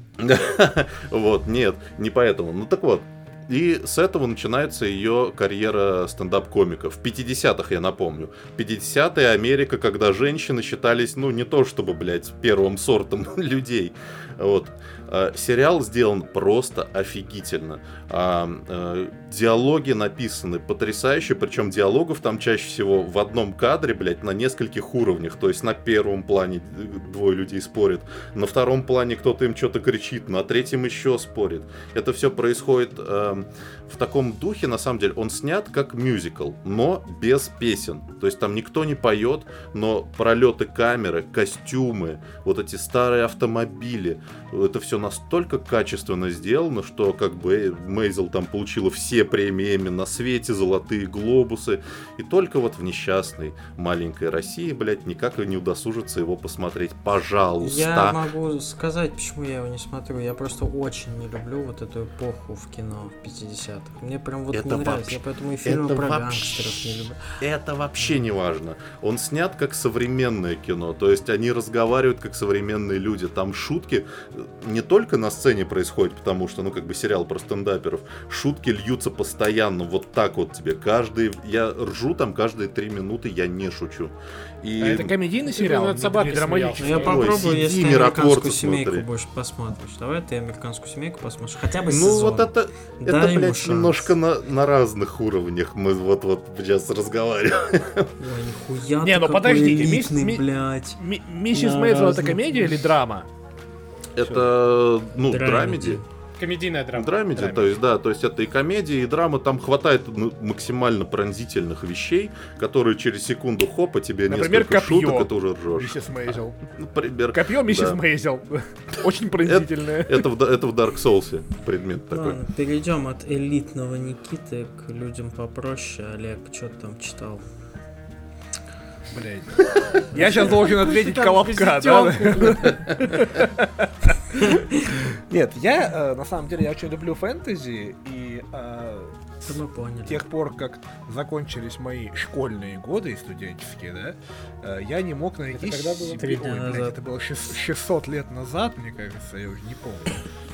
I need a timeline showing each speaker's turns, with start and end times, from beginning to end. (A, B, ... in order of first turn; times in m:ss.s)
0:00.2-0:58.2 A
0:57.6-1:07.2 B
1:04.5-1:25.1 A
1:24.8-1:27.4 C
1:25.4-1:27.5 D
1:26.8-1:34.1 B
1:26.9-1:29.1 A
1:31.9-1:38.1 A
1:38.2-1:41.0 B
1:39.0-1:43.3 C
1:41.5-1:42.9 B
1:44.2-1:46.0 A
1:45.3-1:46.0 B
1:46.4-1:47.7 D
1:46.9-1:58.0 A
1:54.3-1:56.6 C
1:57.3-2:00.3 C
1:59.4-2:02.4 A
2:02.1-2:07.4 B
2:09.1-2:30.2 C
2:10.2-2:10.4 B
2:10.2-2:13.2 D
2:14.4-2:14.9 B
2:19.4-2:20.2 B
2:25.5-2:26.3 D
2:26.2-2:27.0 B